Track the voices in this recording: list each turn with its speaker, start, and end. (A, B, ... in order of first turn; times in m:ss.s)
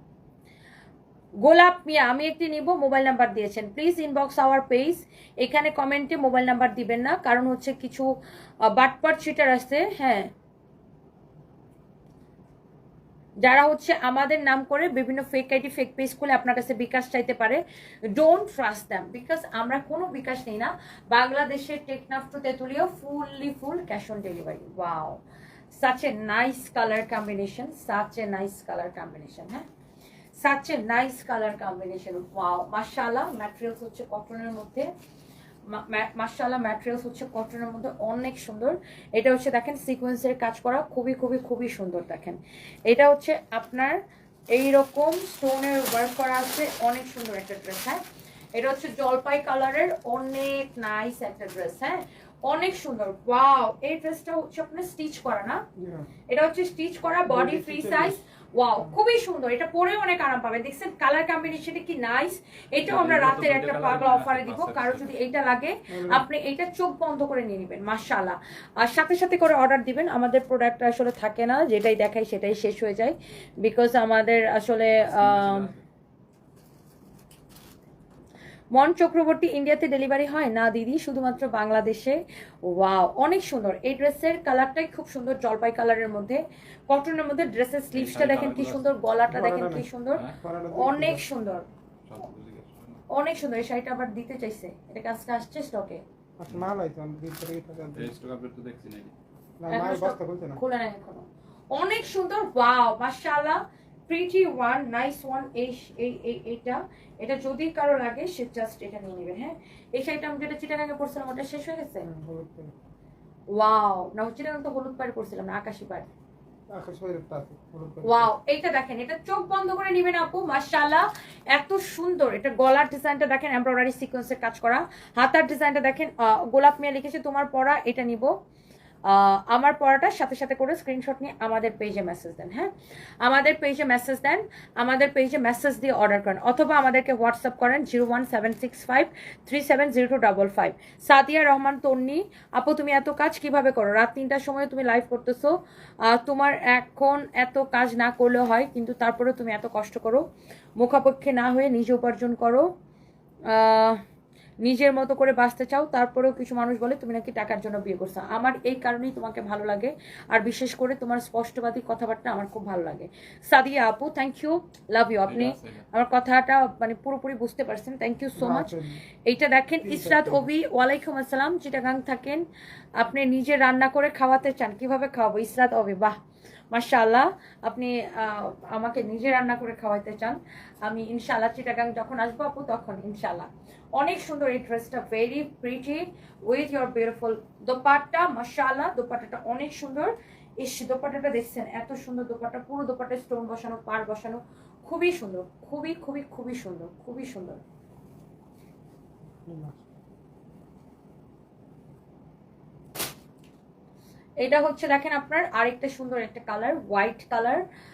0:01.4-0:08.1 A
0:08.6-0:10.3 A
0:13.4-0:29.7 A
0:30.4-0:34.9 A
0:35.7-0:48.0 A
0:48.5-0:55.6 A
0:55.8-0:56.1 B
0:56.3-1:15.7 A
0:57.3-0:58.2 B
1:02.8-1:05.2 C
1:05.9-1:06.2 B
1:15.0-1:15.8 C
1:18.7-1:31.7 A
1:27.9-1:28.9 C
1:29.3-1:31.2 B
1:30.1-1:30.4 C
1:32.1-1:33.0 C
1:33.1-1:36.0 A
1:36.4-1:38.1 B
1:37.9-1:39.1 C
1:39.6-1:40.6 B
1:39.7-1:52.1 A
1:52.0-1:52.7 B
1:53.5-1:56.1 A
1:56.7-1:58.3 B
1:58.0-2:08.4 A
2:09.1-2:30.2 A
2:30.8-2:32.7 A
2:33.5-2:34.0 A
2:34.6-2:52.5 A
2:45.2-2:45.9 C
2:48.4-2:49.0 B
2:49.8-2:50.5 B
2:53.0-2:56.2 A
2:56.7-3:17.6 A
3:19.5-3:19.8 B
3:24.4-3:27.7 A